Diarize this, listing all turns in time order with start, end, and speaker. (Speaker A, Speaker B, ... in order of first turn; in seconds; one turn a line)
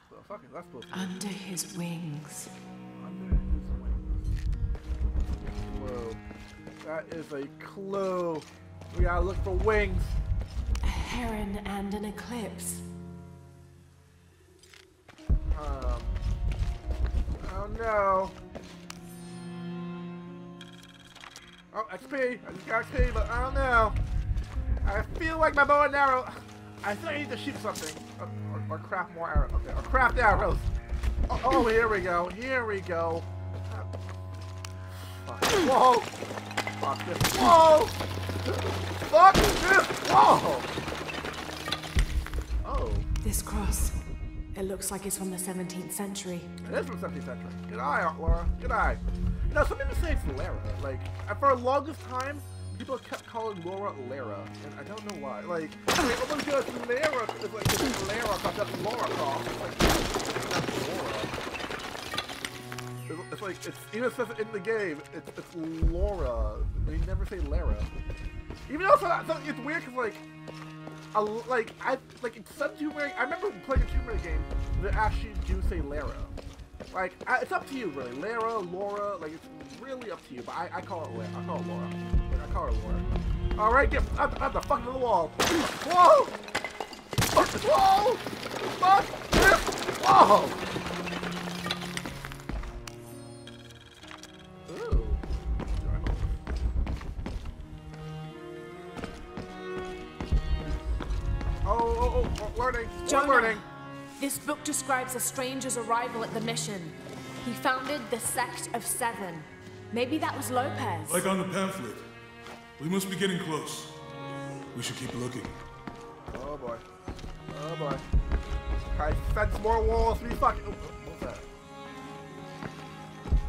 Speaker A: 0.1-1.3
Speaker B: 0.9-2.5
Speaker A: 3.0-4.3
Speaker A: 5.4-6.2
Speaker A: 6.8-10.2
Speaker B: 10.8-12.8
Speaker A: 15.5-16.2
Speaker A: 17.4-18.4
Speaker A: 21.7-24.0
Speaker A: 24.8-30.7
Speaker A: 31.3-33.9
Speaker A: 35.0-36.1
Speaker A: 36.8-40.7
Speaker A: 42.6-43.1
Speaker B: 43.2-44.0
Speaker B: 44.5-46.5
Speaker A: 46.6-61.3
Speaker A: 63.1-67.9
Speaker A: 68.7-70.2
Speaker A: 71.1-76.3
Speaker A: 76.9-83.0
Speaker A: 83.6-86.4
Speaker A: 87.3-88.2
Speaker A: 88.8-90.6
Speaker A: 94.7-95.2
Speaker A: 95.8-96.4
Speaker A: 101.6-103.7
Speaker B: 103.0-103.7
Speaker B: 104.2-111.2
Speaker C: 111.1-112.1
Speaker C: 112.8-114.0
Speaker C: 114.7-115.6
Speaker A: 116.3-116.8
Speaker A: 117.5-118.0
Speaker A: 118.9-121.5